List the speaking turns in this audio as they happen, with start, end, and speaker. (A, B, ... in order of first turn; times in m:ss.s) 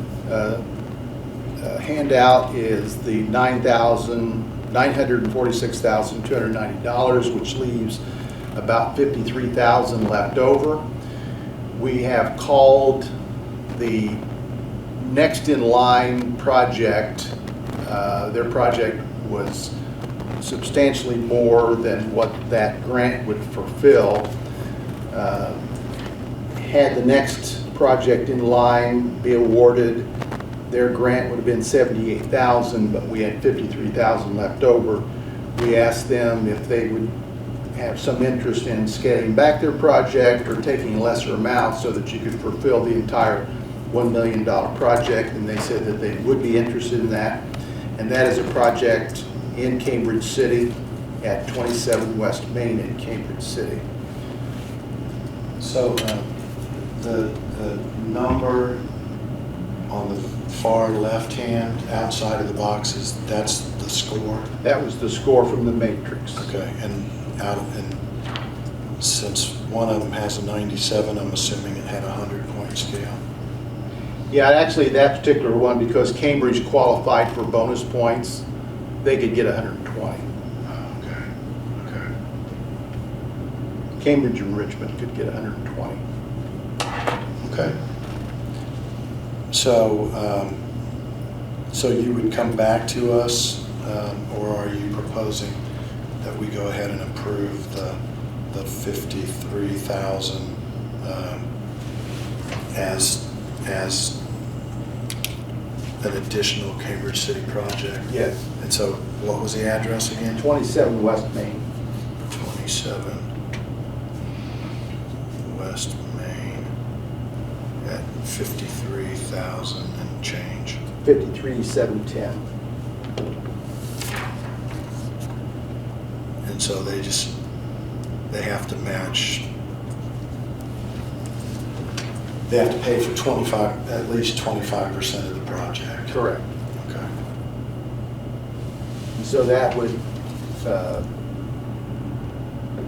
0:00.3-0:00.6 A
0:01.6-0:08.0 A
0:08.5-0:10.8 A
0:11.8-0:13.1 A
0:13.7-0:14.2 A
0:15.0-0:17.3 A
0:17.8-0:19.7 A
0:20.4-0:24.3 A
0:25.1-0:25.6 A
0:26.6-0:30.1 A
0:30.7-0:37.1 A
0:37.7-0:47.5 A
0:48.0-0:53.8 A
0:55.6-0:56.3 B
0:57.0-0:58.8 B
0:59.9-1:04.5 B
1:04.6-1:06.5 A
1:06.4-1:08.0 B
1:09.0-1:13.2 B
1:14.3-1:18.4 A
1:19.0-1:20.2 A
1:20.7-1:22.1 B
1:24.0-1:26.0 A
1:27.4-1:27.8 B
1:29.5-1:30.6 B
1:31.7-1:35.6 B
1:36.2-1:38.0 B
1:38.5-1:41.4 B
1:42.7-1:44.2 B
1:46.0-1:50.4 B
1:48.1-1:48.4 A
1:50.4-1:51.6 A
1:52.3-1:53.2 B
1:55.4-1:56.7 B
1:57.8-2:00.8 B
2:01.0-2:02.4 A
2:06.4-2:07.3 B
2:08.3-2:09.5 B
2:12.5-2:16.2 B
2:16.1-2:16.4 A
2:16.8-2:17.1 B
2:19.2-2:20.0 A
2:20.6-2:21.1 A